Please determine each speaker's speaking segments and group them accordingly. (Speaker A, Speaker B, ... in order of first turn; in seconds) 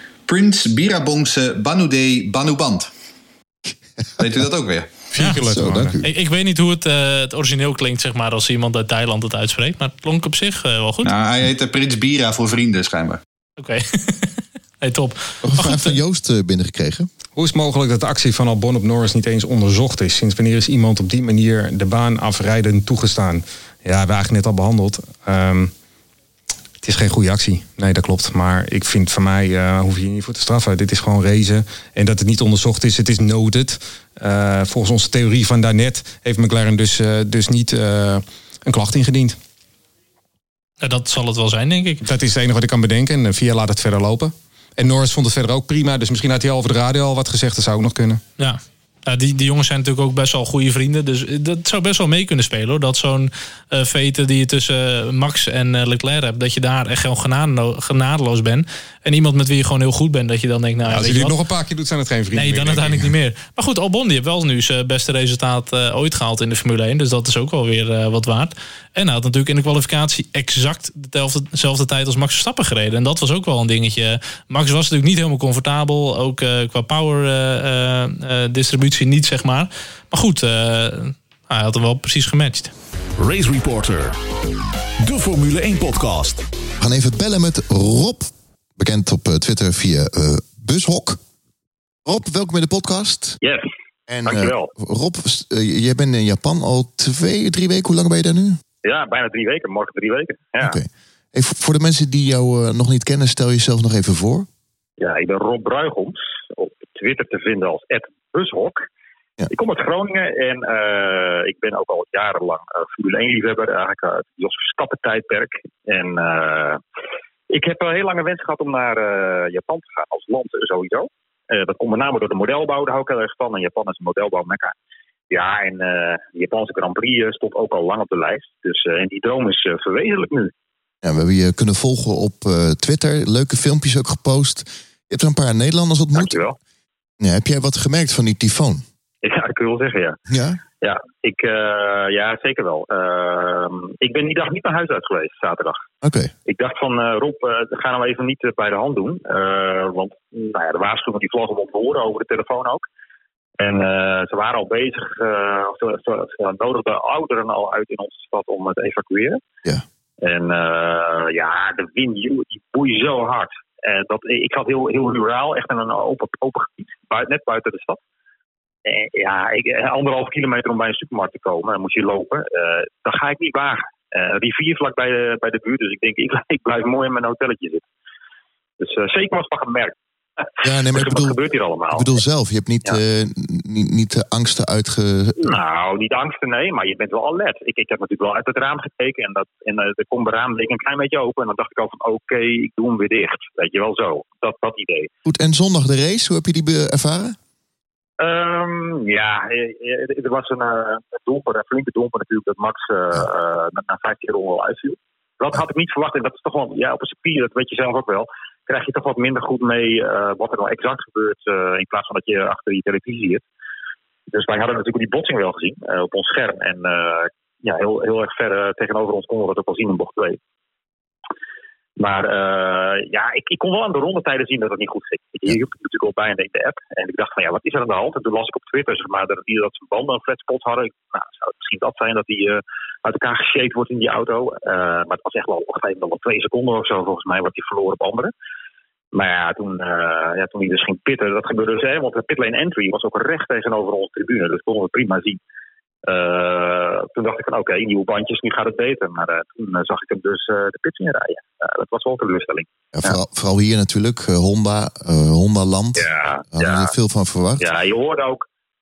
Speaker A: 0.3-2.9, 4.2-4.9, 11.0-13.2
Speaker B: 5.1-6.0, 17.4-25.7, 26.8-39.4, 42.0-48.2, 60.9-63.1
Speaker C: 5.4-6.1, 15.4-17.1, 86.8-91.2, 92.0-93.4, 94.1-98.6, 100.6-104.5, 131.0-136.4, 137.2-138.8, 140.3-140.6, 146.0-146.3, 180.6-181.4, 181.9-185.6, 195.3-197.4, 252.9-257.7
Speaker D: 6.0-11.1, 13.6-15.9, 40.8-42.0, 48.4-61.4, 62.3-82.7
Speaker E: 83.2-84.2, 85.0-86.5
Speaker F: 93.4-93.7, 94.2-94.7, 98.8-100.8, 105.0-108.8, 109.5-116.8, 117.5-124.8, 125.3-130.5, 136.2-136.6, 139.2-140.2, 140.8-145.8, 146.5-152.8, 153.6-159.4, 160.2-168.0, 168.9-177.8, 178.8-180.0, 180.9-182.2, 185.4-195.1, 198.2-213.4, 214.3-220.4, 222.0-238.3, 239.1-245.4, 246.1-252.7, 256.0-256.9, 257.6-258.4